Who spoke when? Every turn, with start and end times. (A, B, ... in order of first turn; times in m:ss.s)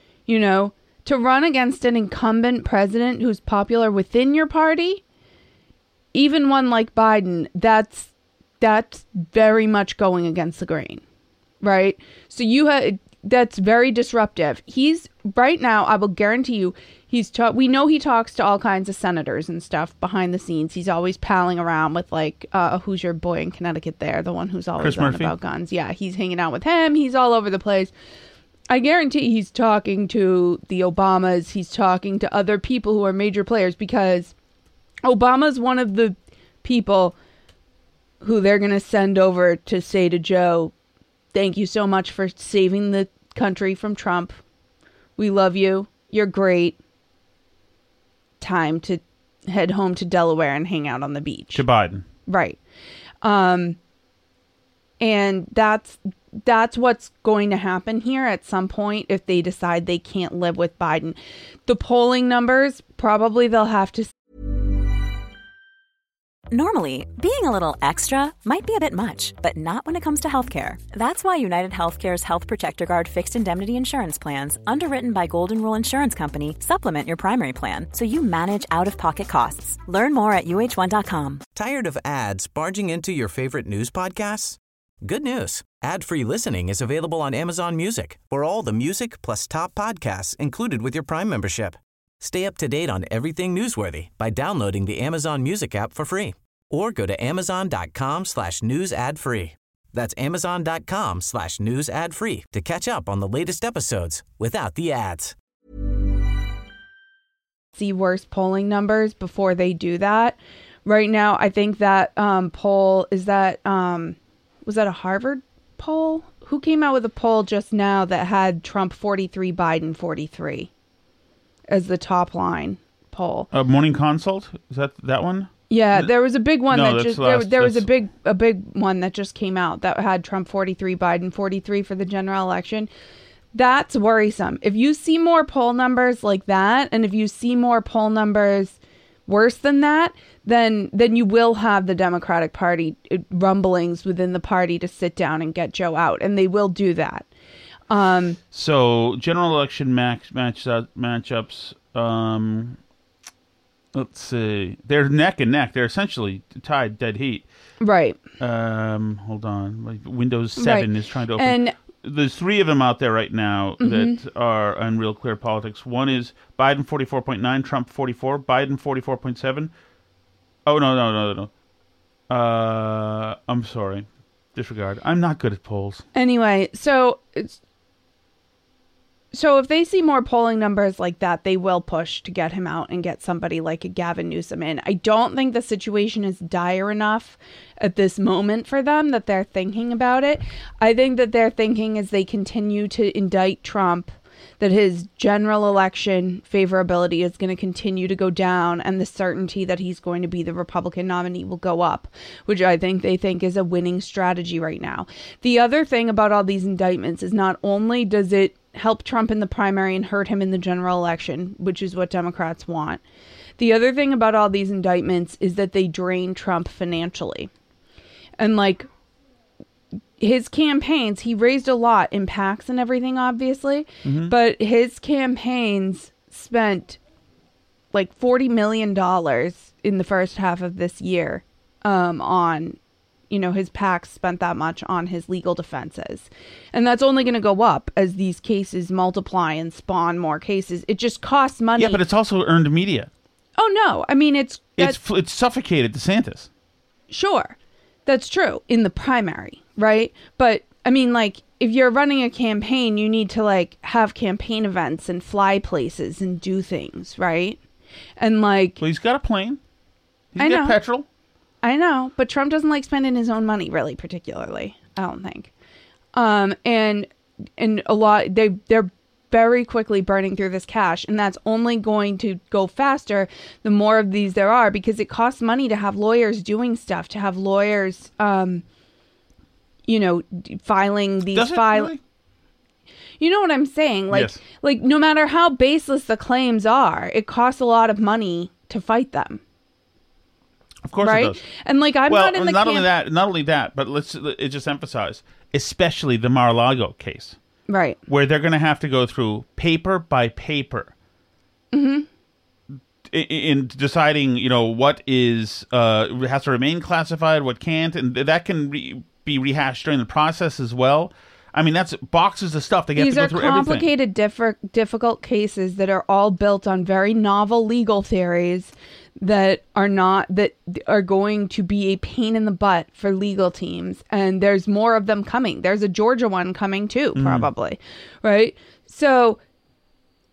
0:00.3-0:05.0 A
0:06.1-0:11.0 A
0:11.6-0:27.9 A
0:24.8-0:25.3 B
0:28.7-0:34.3 A
0:35.0-0:37.2 A
0:38.2-0:40.7 A
0:41.3-0:44.4 A
0:45.2-0:46.8 A
0:48.4-0:51.6 A
0:51.5-0:52.0 B
0:52.3-0:52.6 A
0:53.2-0:53.8 A
0:55.0-1:04.1 A
1:06.5-1:21.4 C
1:21.5-1:45.3 D
1:47.7-2:00.7 A
2:01.7-2:03.5 A
2:03.5-2:06.1 B
2:05.7-2:12.9 A
2:06.7-2:07.8 B
2:13.5-2:27.3 A
2:27.9-2:28.4 A
2:28.5-2:32.8 B
2:33.9-2:37.4 B
2:37.8-2:38.2 A
2:38.4-2:49.7 B
2:40.6-2:41.7 A
2:43.8-2:44.2 A
2:50.6-2:51.5 B
2:52.3-2:56.0 B
2:56.1-2:57.6 A
2:59.3-3:33.0 A
3:33.6-3:37.5 A
3:38.4-3:38.9 A
3:40.2-3:47.0 A
3:44.0-3:44.3 B
3:47.9-3:52.8 A
3:53.3-4:02.0 A
4:01.8-4:03.1 B
4:03.6-4:05.0 A
4:04.8-4:06.5 B
4:07.1-4:17.6 A
4:18.2-4:18.8 A
4:18.8-4:19.6 B
4:20.3-4:21.0 B
4:20.4-4:20.8 A
4:21.6-4:25.5 A
4:26.1-4:38.6 A
4:39.8-4:41.9 A
4:41.3-4:42.0 B
4:43.2-4:49.4 A
4:44.1-4:44.4 B
4:50.8-4:51.4 B
4:51.0-4:52.9 A
4:52.1-4:57.4 B
4:57.7-4:58.0 A
4:58.1-5:00.9 B
5:01.7-5:02.1 A
5:03.1-5:13.9 B
5:13.0-5:29.4 A
5:27.1-5:27.5 B